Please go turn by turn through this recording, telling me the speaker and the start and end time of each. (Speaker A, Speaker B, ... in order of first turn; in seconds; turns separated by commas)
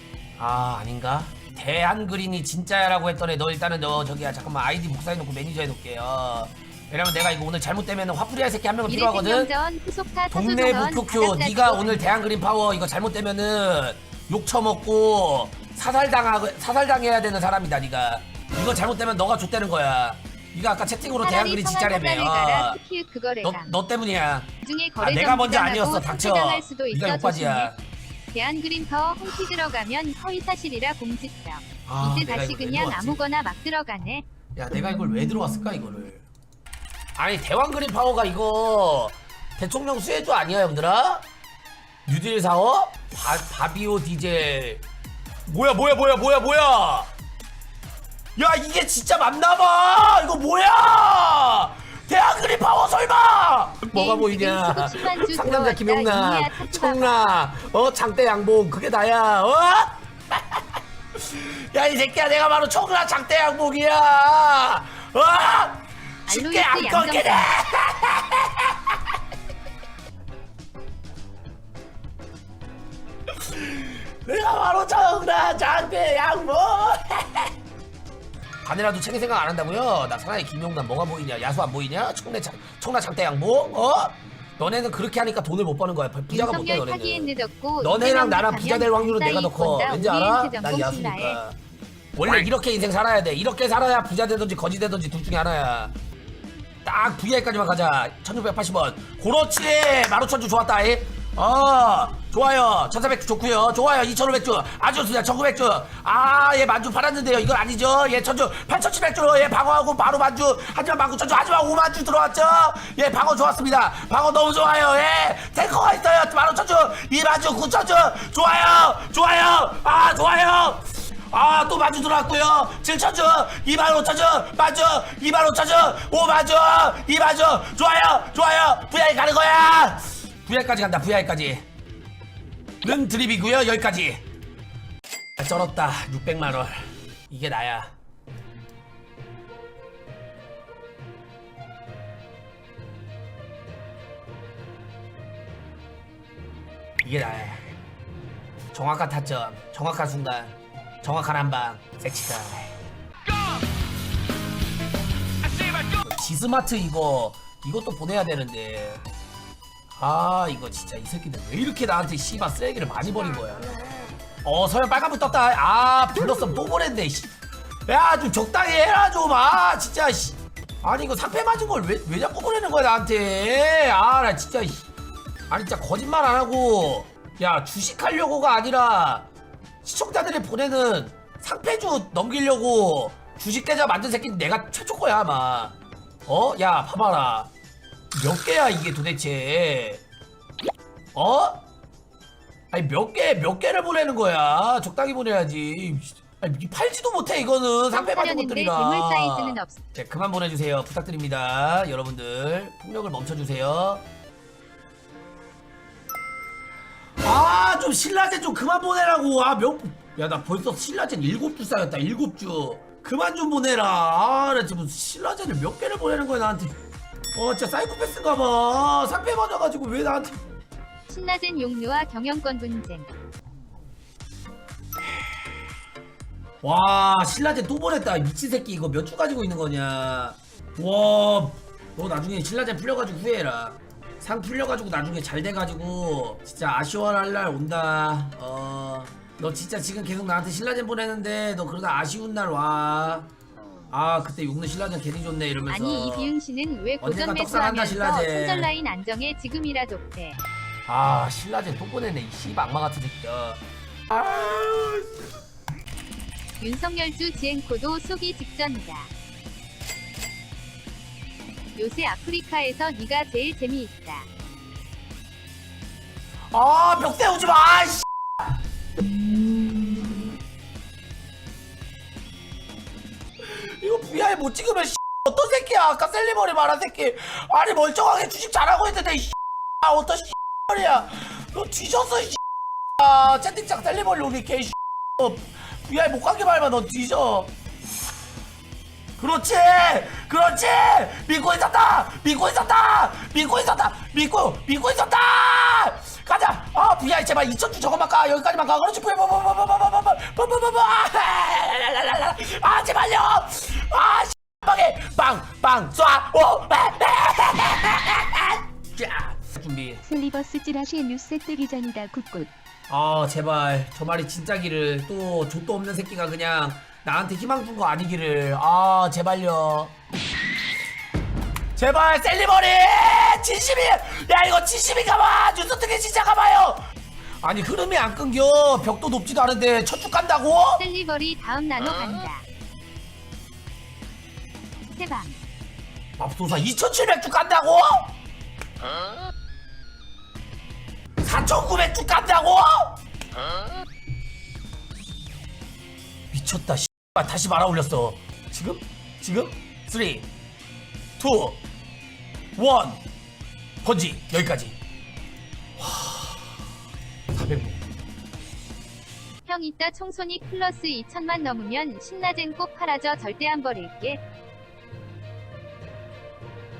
Speaker A: 0.4-9.5, Speaker B: 8.9-12.2, Speaker A: 10.3-22.8, Speaker B: 21.1-23.7, Speaker A: 23.4-27.8, Speaker B: 24.6-27.7, Speaker B: 28.3-34.2, Speaker A: 31.9-33.2, Speaker A: 34.5-36.2, Speaker A: 37.1-41.2, Speaker A: 42.0-44.8, Speaker A: 45.5-47.1, Speaker A: 48.4-69.2, Speaker B: 53.9-57.4, Speaker B: 66.3-67.5, Speaker A: 73.4-77.5, Speaker A: 78.6-91.5, Speaker B: 86.3-91.4, Speaker A: 92.2-95.9, Speaker A: 96.8-131.6, Speaker A: 132.8-134.2, Speaker A: 135.4-137.9, Speaker A: 147.0-147.7, Speaker A: 148.7-152.8, Speaker A: 155.7-159.0, Speaker A: 160.0-163.7, Speaker A: 164.4-167.3, Speaker A: 167.9-174.9, Speaker A: 175.5-179.3, Speaker A: 179.8-185.7, Speaker A: 186.2-187.5, Speaker A: 188.1-190.0, Speaker A: 191.1-191.6, Speaker A: 192.7-204.0, Speaker B: 197.9-199.8, Speaker A: 207.2-216.7, Speaker A: 217.3-220.4, Speaker B: 221.1-223.1, Speaker A: 226.6-243.3, Speaker A: 243.9-246.3, Speaker B: 245.7-250.4, Speaker A: 247.0-248.7, Speaker A: 250.9-255.2, Speaker B: 256.6-259.1, Speaker B: 261.8-264.3, Speaker A: 266.5-268.1, Speaker A: 273.4-282.4, Speaker A: 283.0-287.5, Speaker A: 289.2-310.1, Speaker C: 310.1-312.5, Speaker A: 312.9-319.9, Speaker A: 321.8-326.8, Speaker A: 327.4-330.8, Speaker B: 330.8-332.4, Speaker B: 334.9-335.4, Speaker A: 336.2-338.1, Speaker A: 341.2-343.0, Speaker A: 346.3-350.3, Speaker A: 351.2-351.6, Speaker A: 352.6-353.0, Speaker A: 353.8-354.8, Speaker A: 355.8-356.5, Speaker A: 357.3-357.8, Speaker B: 359.4-364.2